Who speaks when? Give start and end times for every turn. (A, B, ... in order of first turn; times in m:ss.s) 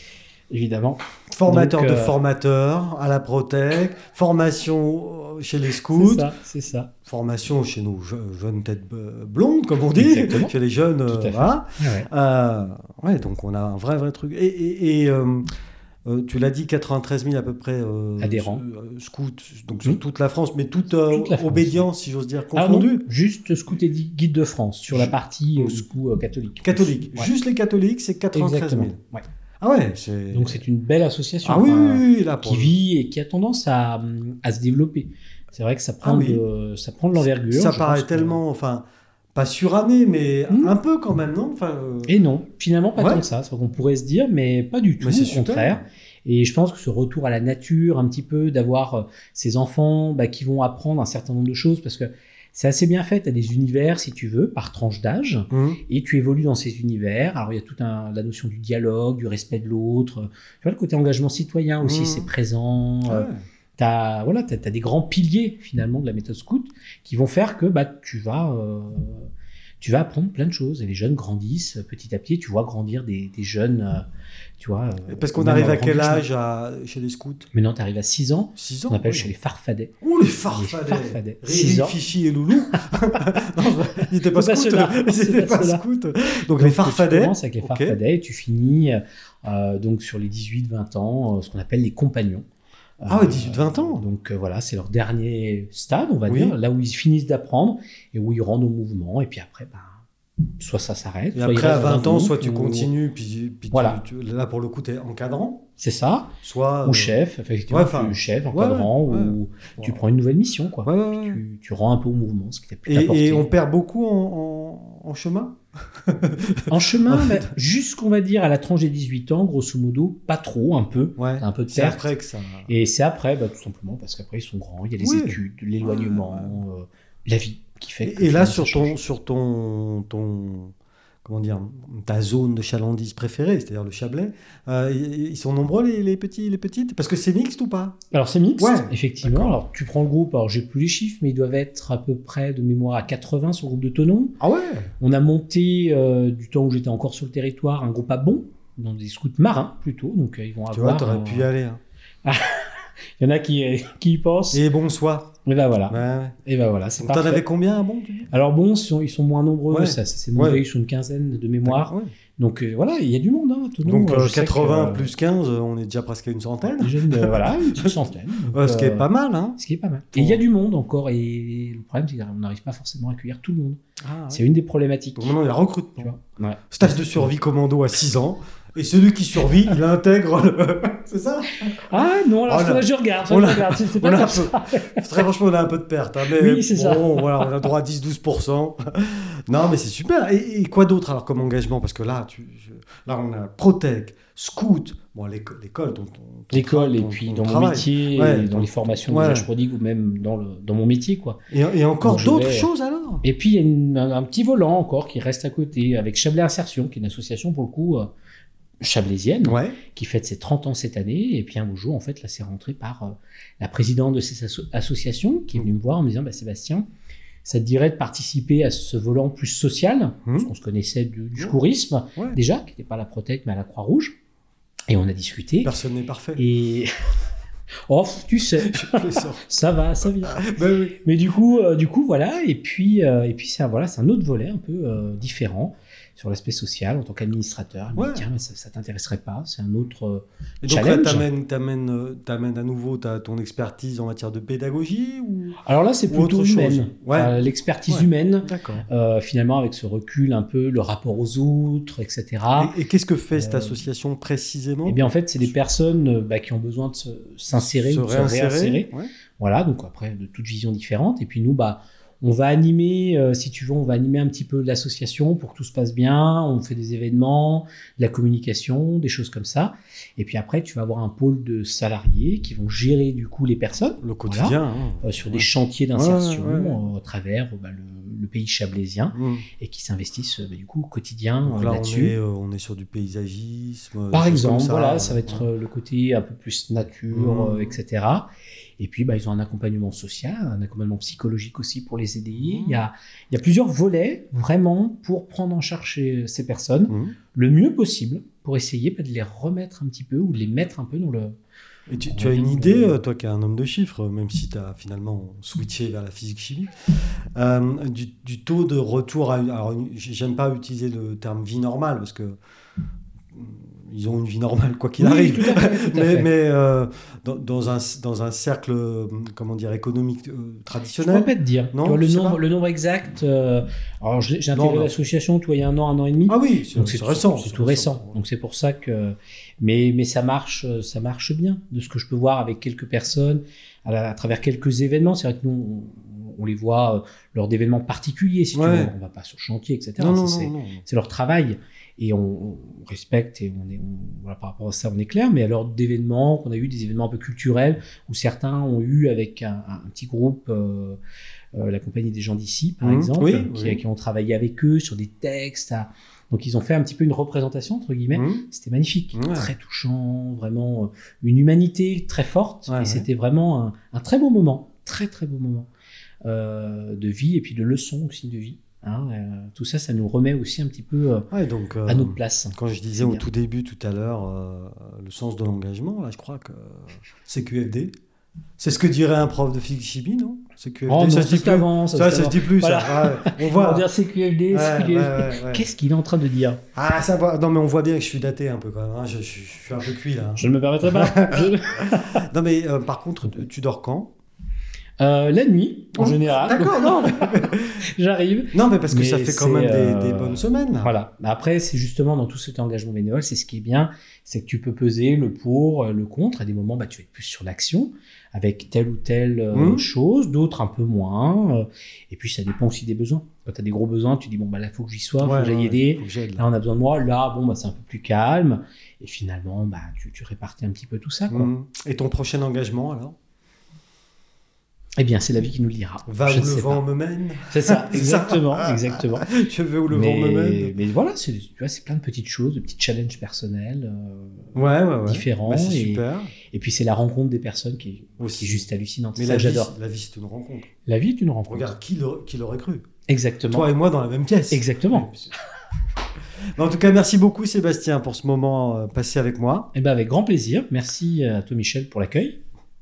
0:00.5-0:02.1 A
0:01.3-0:06.3 B
0:05.9-0:06.9 A
0:07.1-0:15.4 B
0:10.0-0:10.5 A
0:11.1-0:12.1 A
0:16.0-0:23.0 B
0:18.2-0:18.6 A
0:21.1-0:21.9 A
0:22.5-0:27.3 A
0:24.9-0:25.8 B
0:26.6-0:29.0 B
0:28.3-0:29.2 A
0:29.6-0:30.6 B
0:30.3-0:38.4 A
0:31.4-0:32.8 B
0:36.0-0:36.4 B
0:37.2-0:38.8 B
0:39.4-0:42.1 B
0:42.1-1:09.3 A
0:43.0-0:43.2 B
0:45.0-0:45.8 B
0:55.5-0:55.8 B
1:01.8-1:02.3 B
1:03.1-1:03.4 B
1:09.8-1:14.0 A
1:14.6-1:16.3 A
1:15.1-1:17.5 B
1:17.5-1:19.9 A
1:18.6-1:19.3 B
1:20.0-1:28.0 B
1:20.5-1:22.0 A
1:22.7-1:23.0 A
1:23.8-1:25.8 A
1:26.6-1:32.4 A
1:33.0-1:40.0 A
1:33.1-1:34.0 B
1:36.3-1:36.6 B
1:40.6-1:42.9 A
1:41.4-1:45.6 B
1:43.7-1:44.0 A
1:45.8-1:53.5 A
1:46.4-1:47.2 B
1:47.7-1:50.0 B
1:50.8-1:51.4 B
1:52.9-1:57.5 B
1:56.7-2:02.1 A
2:01.2-2:02.7 B
2:02.7-2:09.0 A
2:05.0-2:06.6 B
2:08.0-2:18.0 B
2:18.1-2:24.4 A
2:18.6-2:19.6 B
2:24.4-2:24.9 B
2:25.0-2:31.5 A
2:30.7-2:31.8 B
2:32.2-2:34.6 A
2:34.5-2:35.3 B
2:35.5-2:37.4 A
2:35.9-2:36.4 B
2:37.0-2:38.3 B
2:38.3-2:45.1 A
2:39.7-2:40.6 B
2:41.6-2:42.1 B
2:43.8-2:48.0 B
2:46.8-2:55.3 A
2:48.5-2:49.6 B
2:50.1-2:50.4 B
2:54.0-2:54.4 B
2:55.2-2:56.1 B
2:56.0-2:57.3 A
2:56.7-3:19.5 B
3:01.7-3:05.1 A
3:06.3-3:07.5 A
3:16.5-3:21.4 A
3:21.5-3:23.2 B
3:22.0-3:22.7 A
3:23.2-3:28.1 A
3:28.8-3:36.9 A
3:29.4-3:29.8 B
3:37.4-3:44.2 A
3:44.9-3:45.7 A
3:45.6-3:46.4 B
3:46.4-3:46.9 A
3:47.9-3:50.5 A
3:48.6-3:49.4 B
3:50.3-3:51.0 B
3:51.0-4:01.3 A
3:58.0-3:58.3 B
4:00.6-4:05.6 B
4:05.6-4:12.7 A
4:06.1-4:07.3 B
4:07.9-4:08.9 B
4:12.6-4:15.6 B
4:13.3-4:13.8 A
4:14.8-4:42.2 A
4:17.5-4:19.1 B
4:34.0-4:36.8 B
4:39.1-4:39.5 B
4:41.4-4:45.4 B
4:44.1-5:01.4 A
4:47.1-4:47.8 B
4:52.4-4:52.8 B
4:56.9-4:57.2 B
5:01.9-5:12.4 B
5:02.1-5:03.0 A
5:13.3-5:22.4 B
5:15.0-5:16.3 A
5:21.0-5:51.0 A
5:24.5-5:24.9 B
5:26.3-5:28.2 B
5:38.5-5:38.9 B
5:40.0-5:40.8 B
5:51.6-6:05.7 A
5:52.8-5:53.8 B
5:58.1-5:58.4 B
5:59.1-5:59.5 B
6:02.7-6:03.1 B
6:06.2-6:11.3 A
6:11.3-6:17.9 B
6:11.9-6:13.2 A
6:18.6-6:23.9 B
6:20.9-6:26.6 A
6:24.5-6:25.7 B
6:26.8-6:34.1 B
6:30.4-6:32.2 A
6:35.0-7:01.5 A
6:36.0-6:37.8 B
6:38.5-6:40.9 B
6:49.5-6:49.9 B
6:55.2-6:56.4 B
7:01.3-7:03.2 B
7:05.0-7:06.8 A
7:06.1-7:10.7 B
7:07.5-7:09.3 A
7:09.9-7:19.7 A
7:14.6-7:16.3 B
7:18.2-7:18.6 B
7:19.2-7:20.7 B
7:20.8-7:21.7 A
7:21.5-7:22.8 B
7:23.1-7:23.7 A
7:23.5-7:25.3 B
7:24.5-7:25.1 A
7:26.6-7:29.7 B
7:29.7-7:32.4 A